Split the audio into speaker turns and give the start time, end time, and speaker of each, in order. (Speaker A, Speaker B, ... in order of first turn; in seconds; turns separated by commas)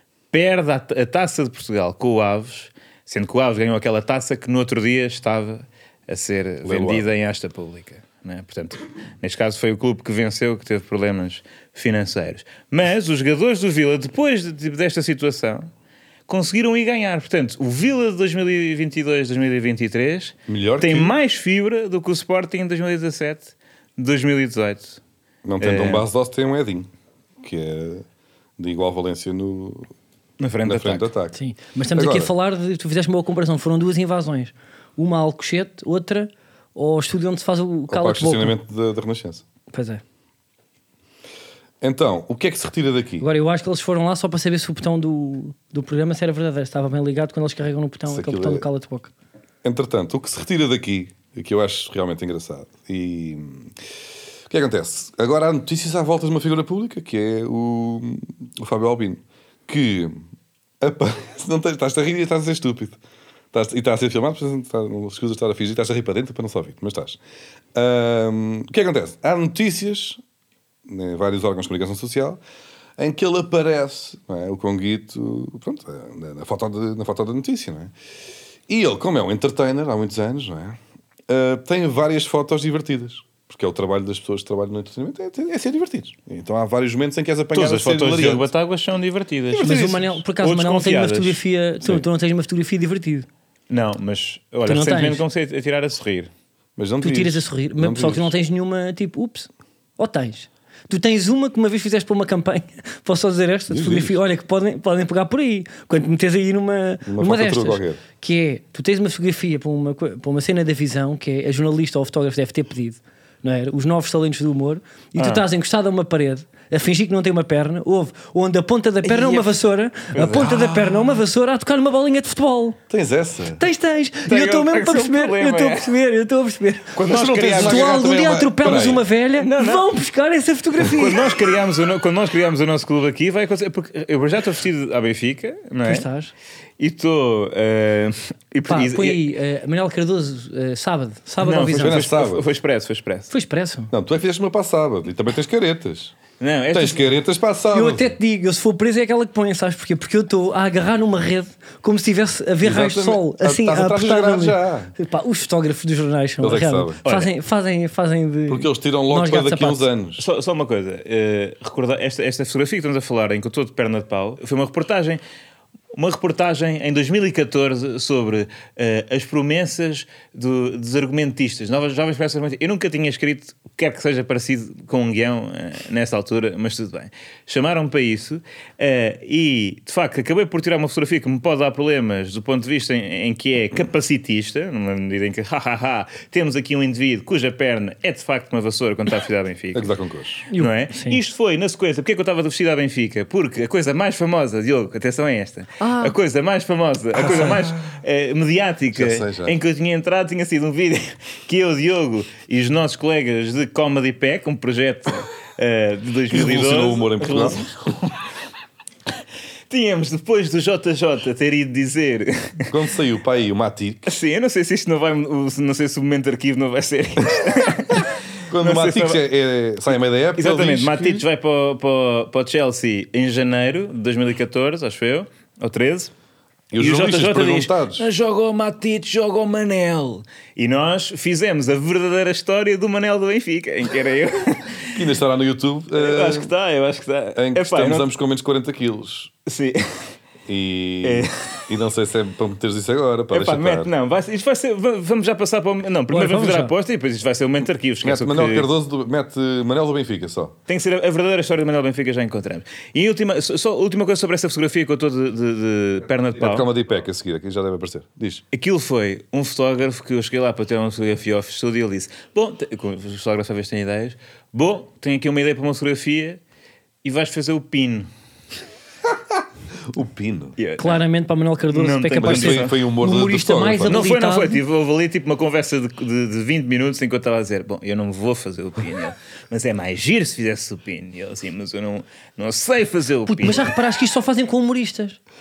Speaker A: 0.3-15.7, Speaker B: 6.6-7.1, Speaker A: 16.3-25.0, Speaker B: 20.5-21.1, Speaker B: 25.4-26.9, Speaker A: 25.6-26.0, Speaker B: 27.4-28.0, Speaker B: 28.6-29.9, Speaker A: 30.4-31.1, Speaker B: 30.6-31.4, Speaker C: 31.3-38.5, Speaker B: 31.9-32.3, Speaker B: 37.9-39.4, Speaker C: 39.7-40.0, Speaker B: 41.8-43.3, Speaker C: 43.2-49.1, Speaker B: 48.1-48.6, Speaker B: 49.6-53.7, Speaker B: 54.5-60.2, Speaker B: 60.8-63.0, Speaker B: 63.5-67.2, Speaker B: 67.7-70.2, Speaker B: 70.9-72.4, Speaker B: 73.0-77.9, Speaker B: 78.7-88.5, Speaker A: 87.5-91.4, Speaker B: 89.5-90.0, Speaker C: 89.5-93.3, Speaker A: 93.7-96.3, Speaker C: 94.7-95.2, Speaker B: 96.8-98.3, Speaker C: 97.0-122.8, Speaker B: 103.7-104.2, Speaker B: 107.0-108.0, Speaker A: 115.2-115.4, Speaker A: 119.0-119.6, Speaker A: 120.1-120.8, Speaker B: 122.9-123.6, Speaker C: 123.6-126.9, Speaker A: 124.3-125.9, Speaker A: 126.9-128.0, Speaker B: 127.0-129.1, Speaker C: 127.6-131.2, Speaker A: 129.4-129.9, Speaker A: 130.8-136.1, Speaker C: 135.8-136.3, Speaker A: 136.8-139.3, Speaker C: 138.7-142.0, Speaker A: 141.4-143.3, Speaker B: 141.7-142.4, Speaker C: 143.3-143.9, Speaker B: 143.9-146.1, Speaker A: 146.4-147.1, Speaker B: 146.7-148.1, Speaker C: 147.7-159.9, Speaker B: 152.6-154.9, Speaker B: 156.4-157.0, Speaker A: 157.1-157.3, Speaker B: 158.5-160.2, Speaker A: 160.2-165.2, Speaker A: 165.9-189.9, Speaker B: 189.7-190.4, Speaker C: 190.5-191.2, Speaker A: 190.6-208.2, Speaker C: 195.8-196.1, Speaker B: 197.1-197.8, Speaker B: 198.9-199.6, Speaker B: 206.3-207.6, Speaker A: 209.7-212.7, Speaker B: 212.7-214.1, Speaker A: 214.1-219.2, Speaker B: 218.5-221.2, Speaker A: 220.3-226.1, Speaker B: 226.7-228.0, Speaker A: 226.8-234.9, Speaker B: 234.9-236.5, Speaker A: 235.9-238.1, Speaker B: 237.3-239.3, Speaker A: 239.5-240.1, Speaker B: 240.5-243.9, Speaker A: 241.0-241.6, Speaker A: 243.3-248.7, Speaker C: 246.1-246.7, Speaker B: 248.0-250.5, Speaker A: 250.7-256.7, Speaker B: 256.4-258.4, Speaker A: 258.5-266.4, Speaker A: 267.0-268.1, Speaker B: 269.9-270.6, Speaker A: 270.6-271.0, Speaker C: 270.8-274.6, Speaker A: 271.7-272.8, Speaker B: 272.2-274.1, Speaker A: 273.9-283.7, Speaker C: 283.3-285.2